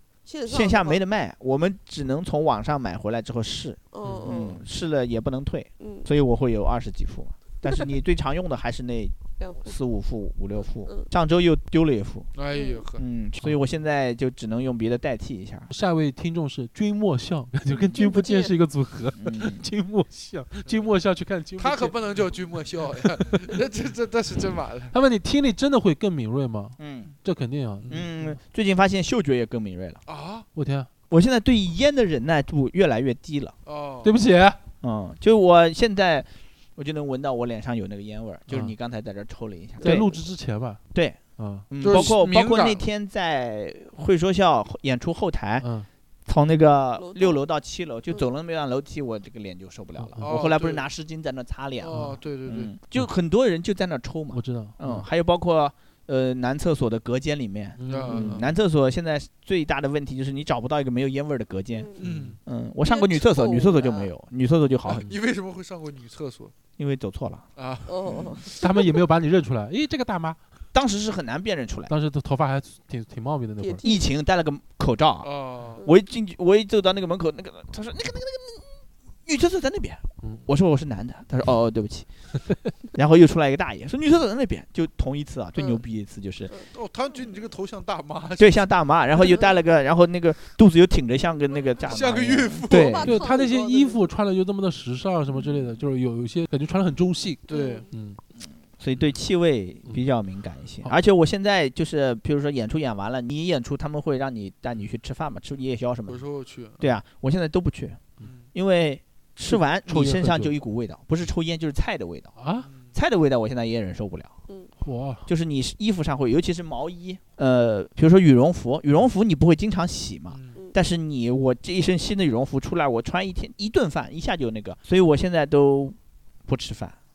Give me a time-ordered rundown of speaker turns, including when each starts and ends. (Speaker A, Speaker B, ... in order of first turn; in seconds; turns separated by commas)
Speaker A: 0.3-1.0, Speaker B: 0.5-12.3, Speaker A: 3.9-4.6, Speaker A: 5.8-6.1, Speaker A: 9.4-9.7, Speaker C: 12.4-13.0, Speaker A: 12.5-12.8, Speaker B: 13.0-15.7, Speaker D: 15.7-21.9, Speaker A: 18.0-18.5, Speaker B: 19.2-19.7, Speaker C: 21.6-24.9, Speaker D: 24.9-28.4, Speaker B: 26.8-27.1, Speaker B: 27.9-30.0, Speaker C: 30.1-30.5, Speaker D: 30.6-30.9, Speaker B: 31.1-33.5, Speaker C: 33.7-34.1, Speaker D: 34.0-34.6, Speaker B: 34.8-40.2, Speaker D: 38.5-38.8, Speaker D: 39.8-40.8, Speaker B: 40.9-45.7, Speaker D: 41.4-42.1, Speaker C: 41.8-42.8, Speaker D: 45.6-45.9, Speaker B: 46.3-61.9, Speaker A: 47.0-47.4, Speaker D: 50.0-50.4, Speaker C: 50.2-50.9, Speaker C: 51.8-52.7, Speaker D: 51.9-52.2, Speaker D: 54.3-55.1, Speaker D: 57.8-58.5, Speaker C: 57.9-58.5, Speaker C: 62.0-62.4, Speaker D: 62.0-62.4, Speaker B: 62.5-65.1, Speaker A: 62.8-64.1, Speaker C: 64.8-66.5, Speaker B: 66.8-67.5, Speaker C: 67.6-68.6, Speaker A: 67.9-68.8, Speaker D: 68.6-70.4, Speaker B: 70.7-71.9, Speaker D: 71.9-73.8, Speaker A: 73.6-74.1, Speaker B: 73.8-75.3, Speaker C: 75.2-75.8, Speaker B: 75.8-82.1, Speaker B: 83.0-86.5, Speaker A: 85.6-85.8, Speaker C: 86.7-88.7, Speaker B: 88.4-93.2, Speaker C: 91.8-93.1, Speaker A: 92.7-94.1, Speaker D: 93.0-98.2, Speaker B: 95.3-95.7, Speaker C: 97.5-97.8, Speaker A: 97.5-97.9, Speaker B: 98.4-106.2, Speaker C: 106.1-106.9, Speaker B: 106.8-112.3, Speaker D: 109.5-110.5, Speaker D: 112.4-112.7, Speaker C: 112.6-112.9, Speaker B: 112.9-114.3, Speaker D: 114.8-115.3, Speaker B: 115.3-126.0, Speaker C: 120.3-120.6, Speaker B: 126.5-127.0